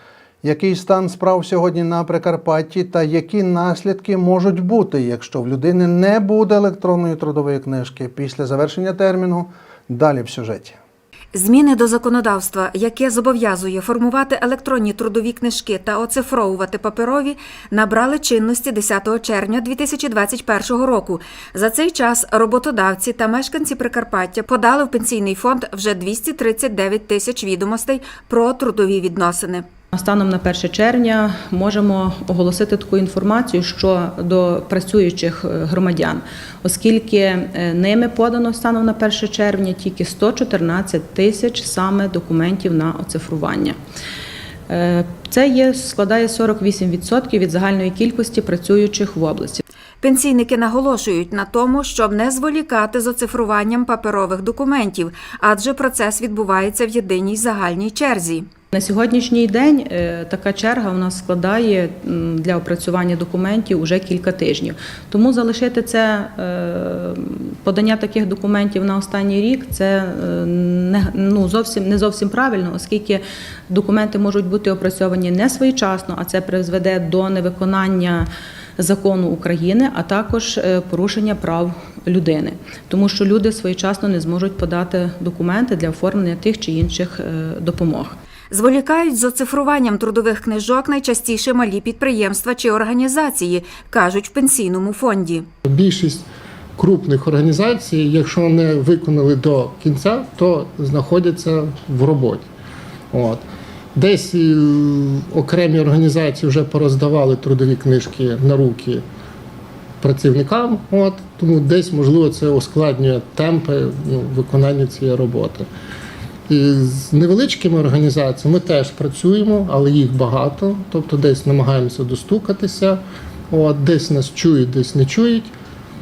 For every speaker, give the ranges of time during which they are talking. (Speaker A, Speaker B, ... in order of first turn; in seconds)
Speaker A: 0.4-10.8
Speaker B: 11.3-29.6, 50.0-58.5, 88.5-95.5
Speaker C: 29.9-43.8, 44.7-49.6, 58.7-88.1
Speaker D: 95.6-96.2, 96.8-102.5, 103.1-103.4, 103.9-109.0, 110.0-115.7, 116.5-125.5